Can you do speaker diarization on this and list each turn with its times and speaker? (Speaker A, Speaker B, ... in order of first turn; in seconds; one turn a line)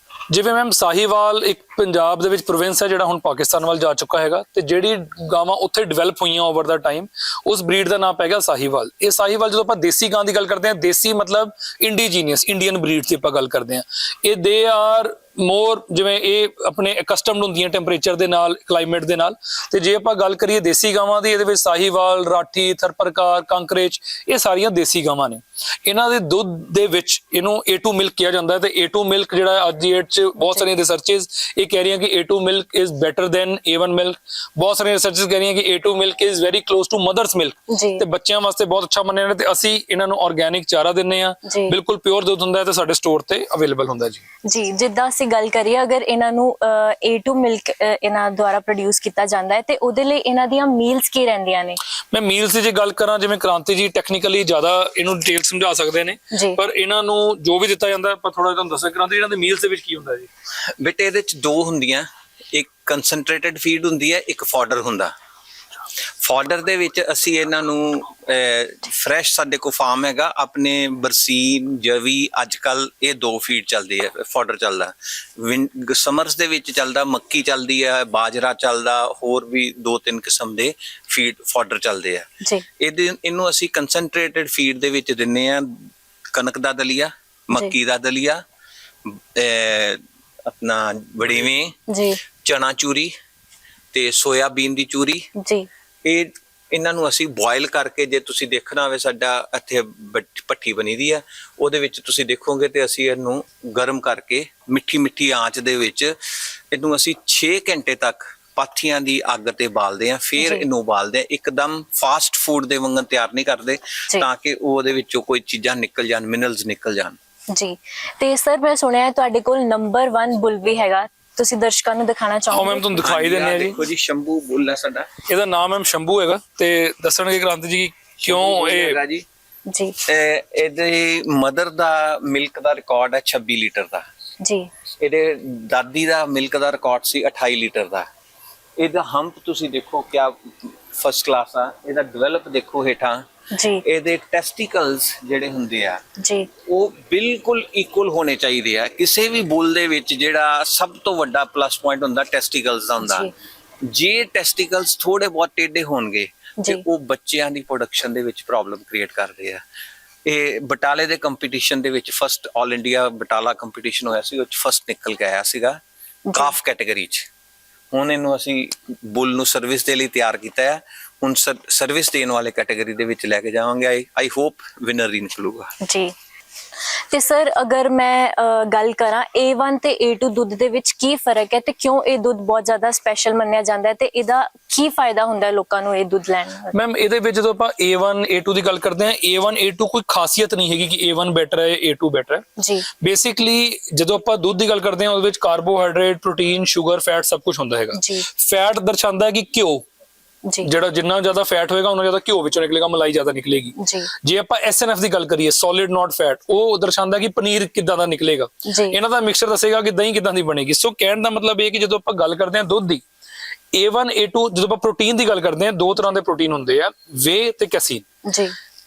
Speaker A: 0.3-44.2
Speaker B: 30.4-30.7
Speaker B: 37.7-38.0
Speaker B: 41.5-41.8
Speaker B: 44.5-51.8
Speaker A: 52.1-60.3
Speaker B: 56.3-56.6
Speaker C: 60.8-65.1
Speaker C: 66.2-82.3
Speaker C: 82.8-85.8
Speaker C: 86.3-88.4
Speaker C: 89.1-91.8
Speaker B: 91.9-92.2
Speaker C: 92.4-93.1
Speaker C: 93.9-95.3
Speaker B: 95.4-95.7
Speaker C: 96.0-106.2
Speaker C: 106.7-117.2
Speaker B: 110.4-110.6
Speaker B: 117.5-123.1
Speaker A: 122.5-123.8
Speaker C: 123.0-125.1
Speaker A: 125.3-129.0
Speaker C: 128.2-129.2
Speaker B: 129.7-130.0
Speaker C: 130.1-134.1
Speaker B: 134.4-134.7
Speaker C: 135.0-138.1
Speaker C: 138.8-143.2
Speaker B: 143.5-143.8
Speaker C: 143.8-146.0
Speaker B: 146.2-146.5
Speaker C: 146.7-153.3
Speaker B: 153.0-153.3
Speaker C: 153.9-159.6
Speaker C: 160.3-165.8
Speaker B: 166.3-166.6
Speaker C: 166.3-167.3
Speaker C: 167.9-175.7
Speaker B: 175.8-176.1
Speaker B: 177.1-186.8
Speaker A: 186.7-192.4
Speaker B: 192.6-192.9
Speaker A: 193.0-199.8
Speaker B: 197.9-198.3
Speaker B: 200.4-200.7
Speaker A: 200.6-213.0
Speaker B: 203.8-204.1
Speaker B: 208.7-209.0
Speaker A: 213.7-218.0
Speaker B: 218.3-218.6